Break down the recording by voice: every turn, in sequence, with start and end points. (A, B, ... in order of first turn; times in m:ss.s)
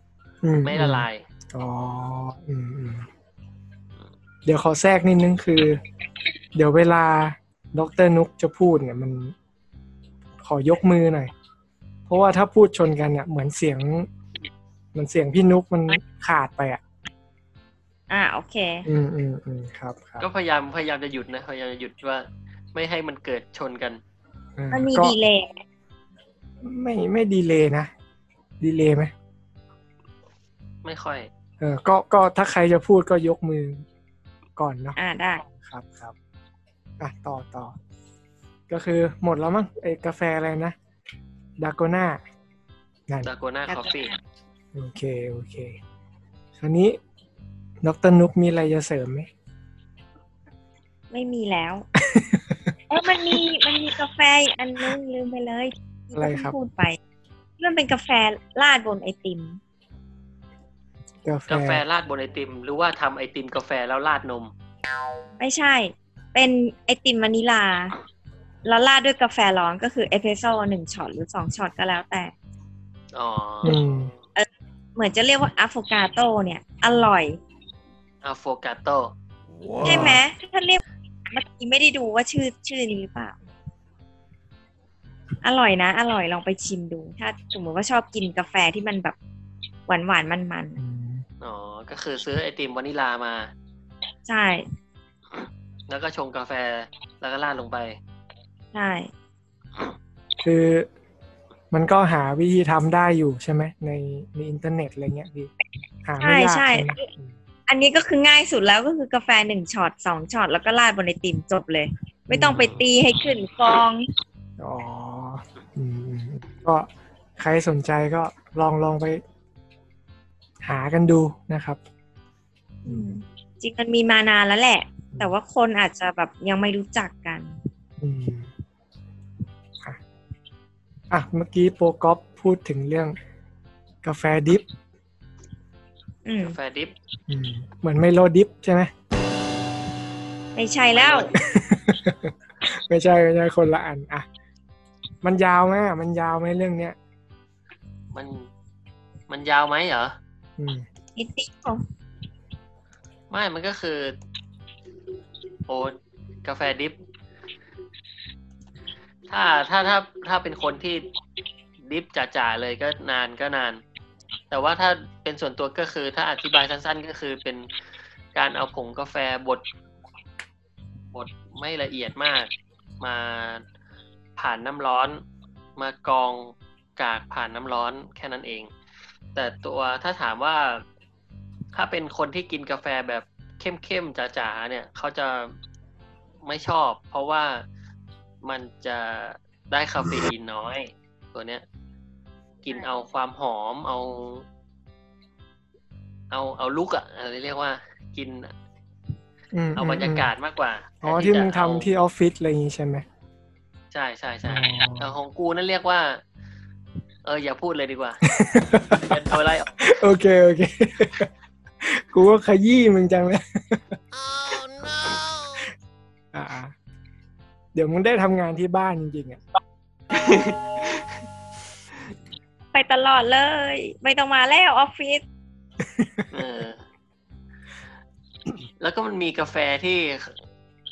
0:00.4-0:03.1 A
0:00.6-0:01.2 B
0:04.4-0:05.8 A
0:06.6-0:09.3 A
0:10.4-0:11.3 A
0:12.1-0:14.1 A
0:15.0-0:16.8 A
0:18.1-0:18.9 C
0:18.9-0:20.2 A
0:20.2-0:24.0 B
0:24.6-0:25.2 A
0:24.7-0:25.6 C
0:26.6-0:27.9 A
0:28.6-0:29.1 A
0:30.8-0:31.3 B
0:31.6-0:33.9 A
0:34.6-0:36.1 A
0:35.0-0:35.4 C
0:37.0-0:37.8 A
0:38.7-0:40.8 A
0:41.6-0:42.2 A
0:43.2-0:44.1 B
0:43.7-0:44.2 C
0:44.7-0:45.8 A
0:46.6-0:47.0 A
0:47.8-0:49.3 A
0:51.1-0:51.9 C
0:52.0-0:52.5 A
0:52.9-0:57.0 C
0:56.2-0:56.6 A
0:57.6-0:59.6 C
1:01.2-1:01.8 A
1:01.5-1:04.5 B
1:05.4-1:07.9 C
1:08.6-1:12.3 C
1:13.1-1:13.8 B
1:13.6-1:14.1 A
1:14.4-1:17.4 C
1:18.2-1:19.1 B
1:19.8-1:20.2 A
1:19.8-1:23.4 C
1:25.4-1:29.2 C
1:29.9-1:30.8 C
1:30.8-1:31.2 A
1:31.4-1:33.5 B
1:34.3-1:34.7 C
1:35.3-1:38.0 B
1:38.7-1:39.1 C
1:40.4-1:40.9 A
1:41.7-1:45.5 A
1:46.0-1:47.3 A
1:46.2-1:47.1 C
1:47.7-1:54.1 C
1:52.3-1:52.7 A
1:52.6-1:52.8 B
1:54.6-1:59.2 A
2:00.6-2:01.8 A
2:02.8-2:07.6 C
2:08.0-2:08.5 A
2:11.1-2:13.2 A
2:14.0-2:14.7 A
2:16.2-2:16.6 C
2:16.4-2:16.9 B
2:17.3-2:18.9 A
2:20.6-2:21.3 C
2:20.9-2:21.6 B
2:21.4-2:24.3 A
2:25.2-2:27.0 A
2:28.1-2:28.5 B
2:29.3-2:30.2 B
2:30.6-2:30.8 A
2:31.2-2:31.8 C
2:33.3-2:34.2 B
2:35.7-2:37.0 B
2:39.3-2:41.0 B
2:41.8-2:43.8 B
2:44.5-2:47.7 B
2:48.4-2:49.6 B
2:51.1-2:53.6 B
2:54.4-2:55.2 B
2:55.8-2:58.7 B
2:59.4-3:00.8 B
3:01.7-3:05.6 B
3:06.4-3:07.6 B
3:08.4-3:11.6 B
3:12.6-3:14.4 B
3:16.3-3:18.5 B
3:19.5-3:20.3 A
3:19.8-3:21.9 B
3:21.0-3:23.0 A
3:23.9-3:26.2 B
3:24.5-3:25.1 A
3:27.2-3:29.9 B
3:28.3-3:29.2 A
3:29.8-3:31.3 A
3:31.8-3:34.0 A
3:36.3-3:36.7 A
3:37.8-3:39.4 A
3:40.1-3:41.1 B
3:42.7-3:45.2 C
3:45.8-3:46.3 A
3:46.3-3:46.8 B
3:48.8-3:50.4 B